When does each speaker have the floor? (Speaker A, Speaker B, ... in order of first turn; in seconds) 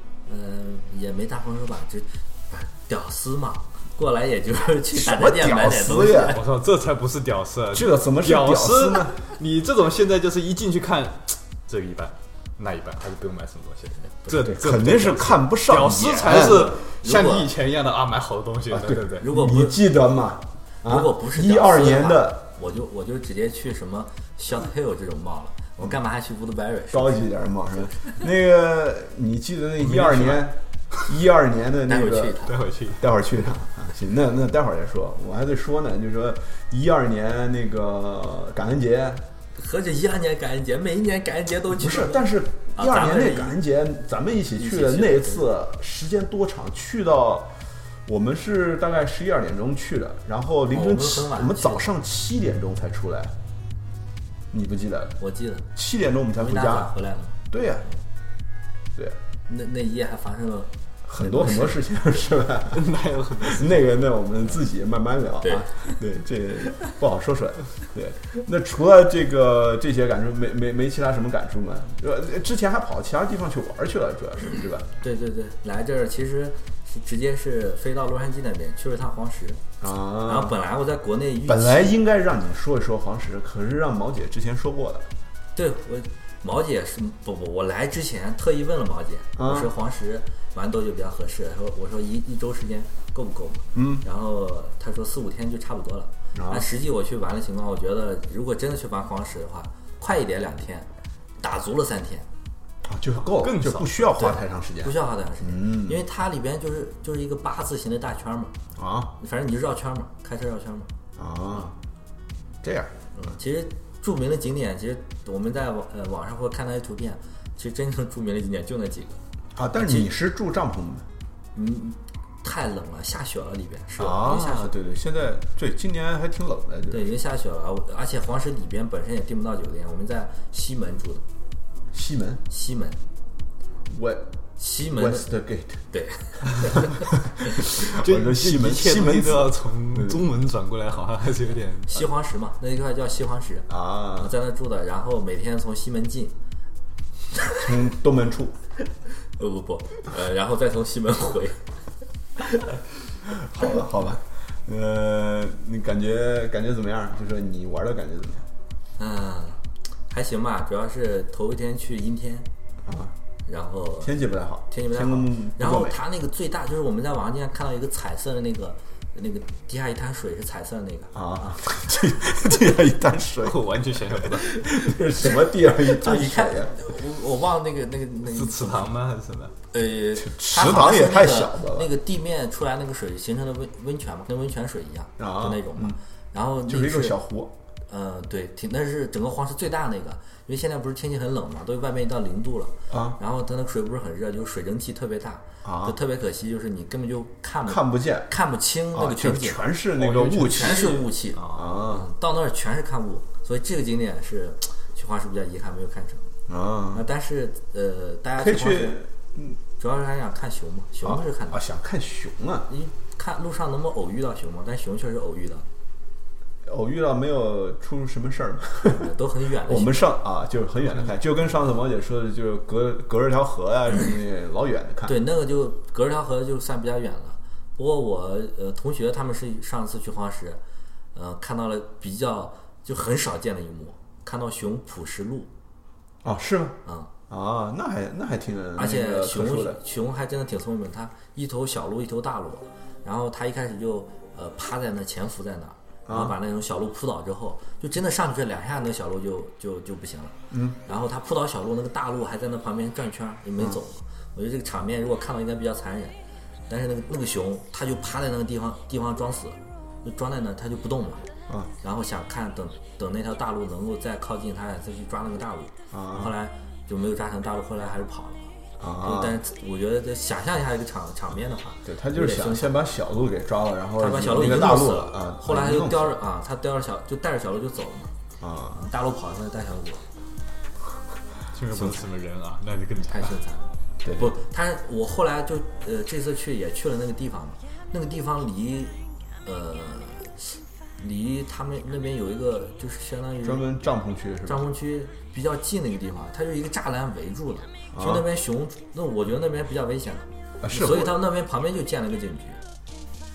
Speaker A: 0.2-6.4, 16.3-17.5, 19.2-19.8, 20.8-28.2, 31.9-32.5, 39.5-43.6, 44.6-45.5, 50.7-51.9, 55.2-55.7, 56.4-57.4, 59.5-61.8, 65.4-65.9, 75.0-79.6, 80.2-81.9, 85.5-100.9, 101.4-102.3, 104.2-108.5, 109.2-110.9, 113.1-119.2, 119.8-120.1, 121.5-124.7, 126.9-131.2, 132.5-133.0, 134.6-135.3, 135.9-137.1, 141.9-146.3, 149.3-151.7, 152.4-152.7, 159.0-162.5, 163.4-171.8, 175.2-178.9, 179.7-187.2, 187.9-199.8, 200.4-206.3, 206.9-209.0, 209.8-211.6, 212.7-215.7, 218.9-220.0, 225.0-230.6, 231.1-235.5, 236.8-237.1, 238.8-256.1, 256.7-261.3, 261.8-272.7, 274.0-278.1, 278.7-280.0, 283.1-293.6, 294.4-302.6
Speaker B: 4.9-6.4, 7.7-9.1, 14.3-16.7, 18.7-22.4, 26.9-32.4, 33.0-39.2, 41.7-47.5, 48.0-53.3, 54.5-55.2, 55.7-56.9, 57.5-57.9, 61.0-74.9, 79.8-80.5, 81.5-85.1, 89.4-89.7, 93.7-94.0, 96.3-96.7, 102.8-106.0, 108.8-109.1, 111.2-111.7, 112.6-112.9, 119.5-121.1, 124.0-127.1, 131.9-132.4, 133.9-134.3, 134.9-135.8, 137.8-140.3, 143.7-144.3, 147.6-148.5, 153.3-158.5, 162.8-163.1, 164.0-166.0, 171.1-173.6, 174.1-176.8, 180.2-181.9, 185.2-186.0, 186.7-187.5, 192.9-193.2, 195.6-195.9, 197.7-198.3, 198.9-202.1, 206.5-207.0, 208.4-209.6, 211.0-212.7, 216.6-219.1, 219.6-225.2, 236.2-236.8, 237.3-239.8, 246.1-246.3, 250.5-250.8, 265.9-266.3, 268.8-269.4, 271.9-276.2, 278.4-278.8, 284.0-284.3, 293.4-294.6, 297.9-298.2, 300.6-301.2
Speaker C: 6.3-19.3, 29.8-31.0, 32.4-33.1, 62.7-64.0, 103.2-104.2, 137.7-142.1, 173.4-174.6, 178.3-179.5, 199.9-201.7, 281.5-283.4